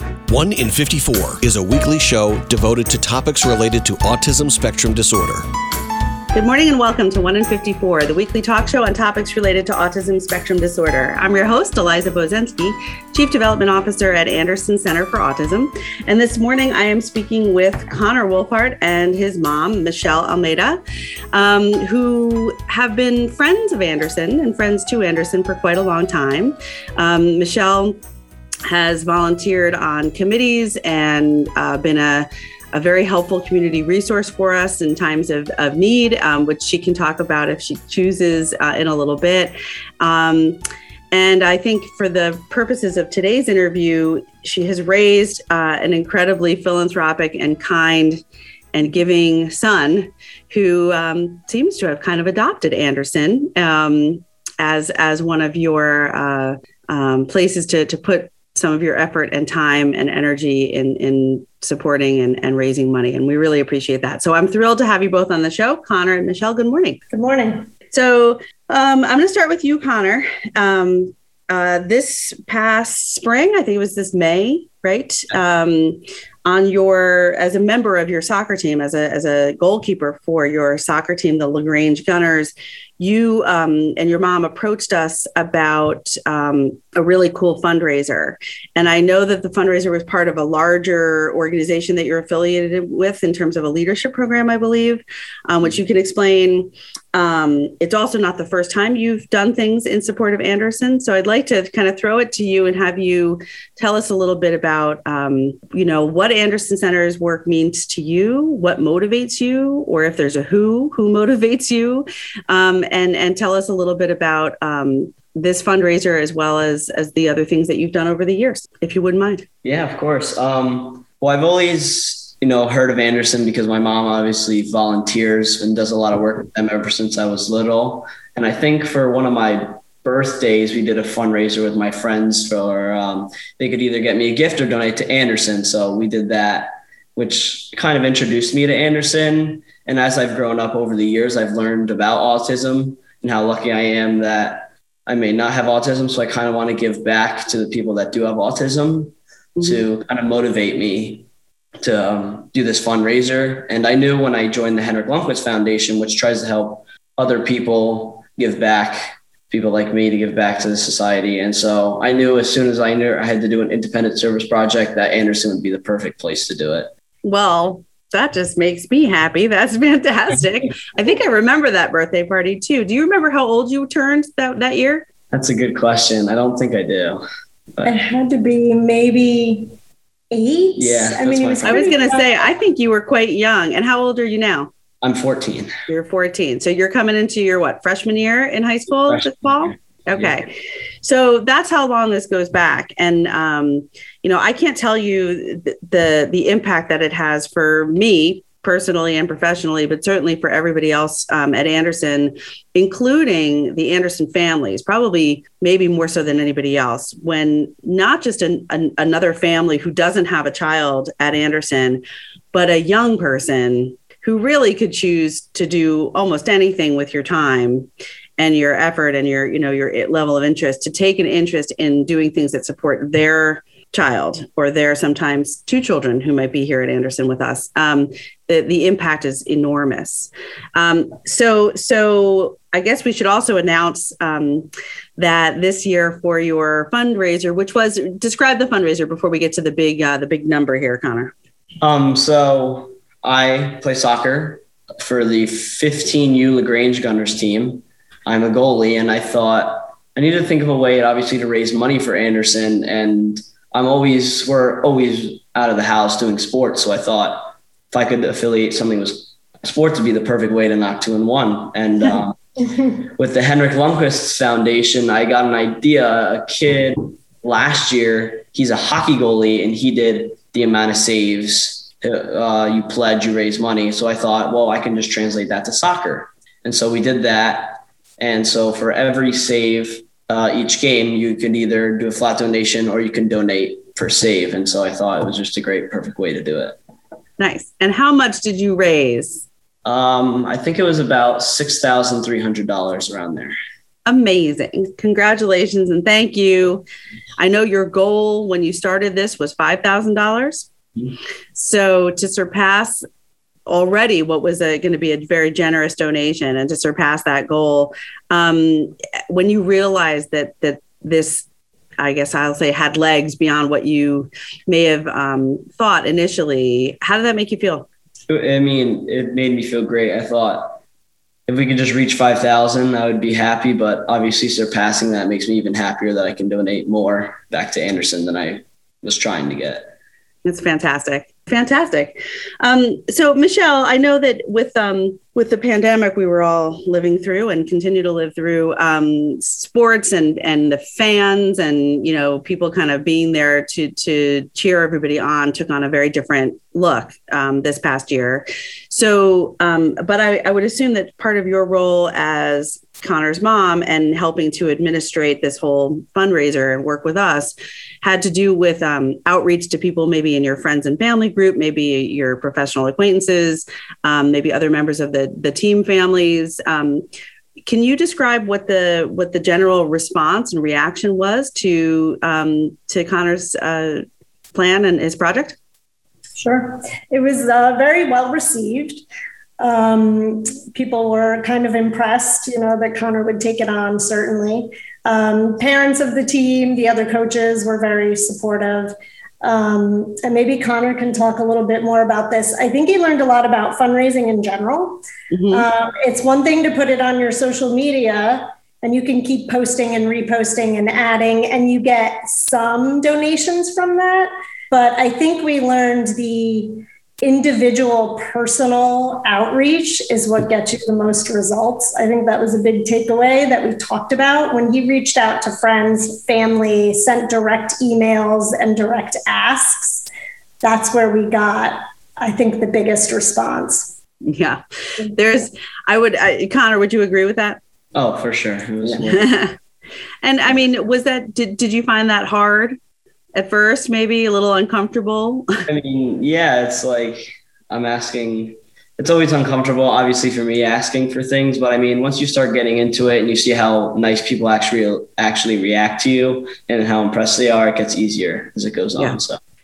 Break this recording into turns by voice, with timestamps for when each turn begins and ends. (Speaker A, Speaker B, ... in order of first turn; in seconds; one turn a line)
Speaker A: 0.3-5.5
Speaker B: 6.3-20.8
Speaker B: 21.3-28.0
Speaker B: 28.6-40.6
Speaker B: 41.1-48.2
Speaker B: 48.7-67.0
Speaker C: 67.1-67.7
Speaker B: 67.9-119.4
Speaker D: 119.6-151.2
Speaker D: 151.8-166.9
Speaker B: 167.2-175.1
Speaker D: 175.3-177.2
Speaker C: 177.8-179.7
Speaker C: 180.3-182.5
Speaker D: 180.8-182.0
Speaker B: 181.6-184.7
Speaker D: 185.0-185.7
Speaker B: 185.9-241.3
Speaker D: 189.1-189.5
Speaker D: 241.8-286.8
Speaker B: 287.4-289.4
Speaker D: 289.8-293.6
Speaker B: 294.1-296.8
Speaker B: 297.4-300.7
Speaker B: 301.5-303.0
Speaker B: 303.7-311.4
Speaker B: 312.0-317.9
Speaker D: 318.3-320.8
Speaker D: 321.5-329.9
Speaker B: 330.4-367.0
Speaker B: 367.6-375.6
Speaker C: 376.4-379.0
Speaker C: 379.6-420.1
Speaker B: 395.3-395.6
Speaker C: 420.6-423.9
Speaker B: 424.2-427.6
Speaker D: 427.9-429.2
Speaker B: 428.8-429.5
Speaker B: 430.2-432.8
Speaker B: 433.3-435.5
Speaker D: 435.7-449.4